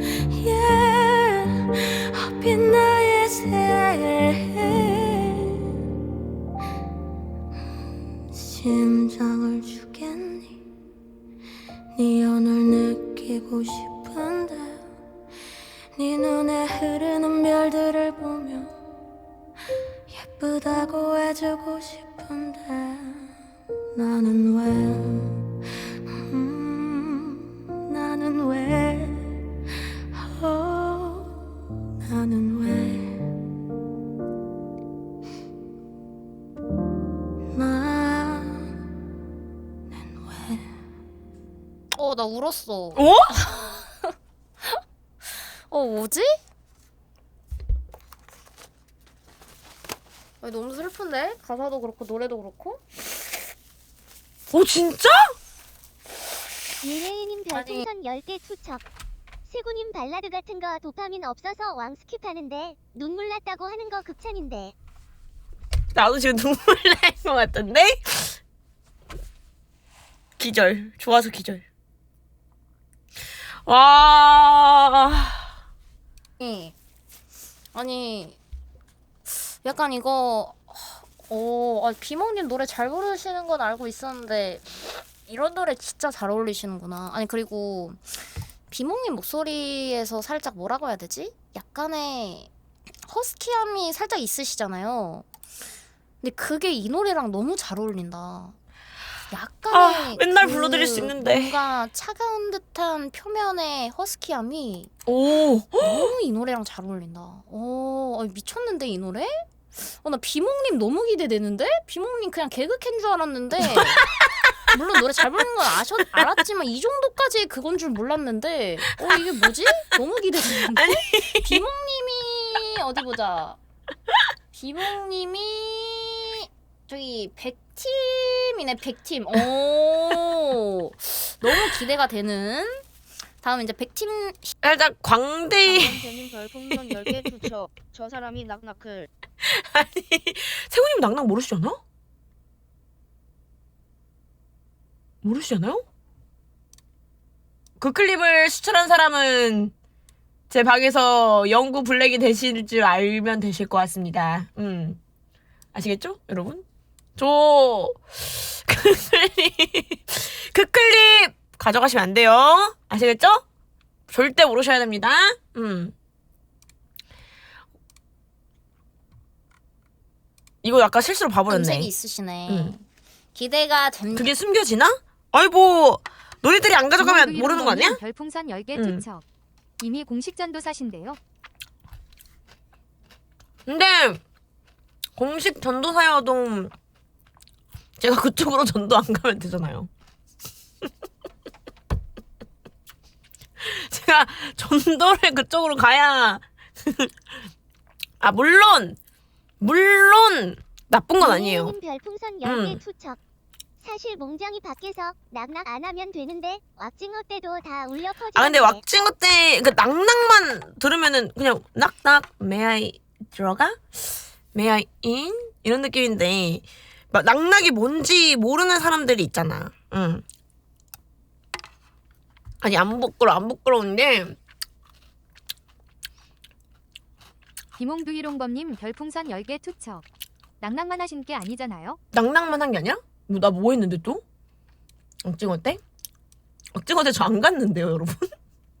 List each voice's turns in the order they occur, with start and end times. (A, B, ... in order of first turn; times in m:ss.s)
0:00.2-0:05.7 A
0:08.3-0:10.6 A
0:11.9-0:14.8 A
0:16.0-0:18.7 A
0:20.1-0:23.3 A
0:23.9-0:25.4 A
0:26.1-0:29.4 A
0:30.1-0:31.4 A
0:32.0-0:33.3 A
0:37.5-0:38.7 A
0:40.0-0:40.6 A
0:41.9-0:44.0 B
0:43.0-0:43.3 C
0:45.7-0:46.3 B
0:50.4-0:52.9 B
0:54.5-0:55.2 C
0:56.8-0:58.8 D
0:57.5-0:57.8 C
0:59.5-1:04.7 D
1:05.9-1:08.4 C
1:10.4-1:11.6 C
1:13.6-1:15.5 C
1:16.4-1:16.7 B
1:17.7-1:18.4 B
1:19.3-1:28.1 B
1:28.7-1:32.5 B
1:33.0-1:35.2 B
1:36.2-1:38.6 B
1:39.3-1:44.9 B
1:39.7-1:41.6 C
1:45.0-1:46.1 C
1:45.8-1:54.0 B
1:53.7-1:54.3 C
1:54.7-2:03.6 B
2:00.5-2:01.6 C
2:04.5-2:12.8 B
2:13.4-2:14.5 B
2:14.6-2:16.1 C
2:15.7-2:19.1 E
2:16.7-2:17.5 C
2:19.4-2:21.8 C
2:25.2-2:25.8 C
2:27.8-2:29.7 C
2:30.5-2:35.0 C
2:35.7-2:36.6 C
2:37.2-2:43.4 C
2:44.1-2:45.9 C
2:50.6-2:51.9 C
2:51.5-2:54.3 B
2:52.5-2:52.7 C
2:54.1-2:58.0 C
2:57.0-2:59.2 F
2:58.7-2:59.0 C
2:59.8-3:01.2 F
3:03.7-3:04.2 C
3:05.2-3:06.7 C
3:08.0-3:09.9 C
3:13.6-3:17.1 C
3:18.2-3:19.0 C
3:19.6-3:21.8 C
3:21.2-3:23.2 D
3:22.4-3:22.8 C
3:23.8-3:28.8 D
3:28.3-3:40.2 C
3:42.6-3:44.4 C
3:47.8-3:50.0 F
3:50.6-3:52.0 F
3:52.1-3:54.2 C
3:55.2-3:55.8 C
3:56.7-3:58.3 C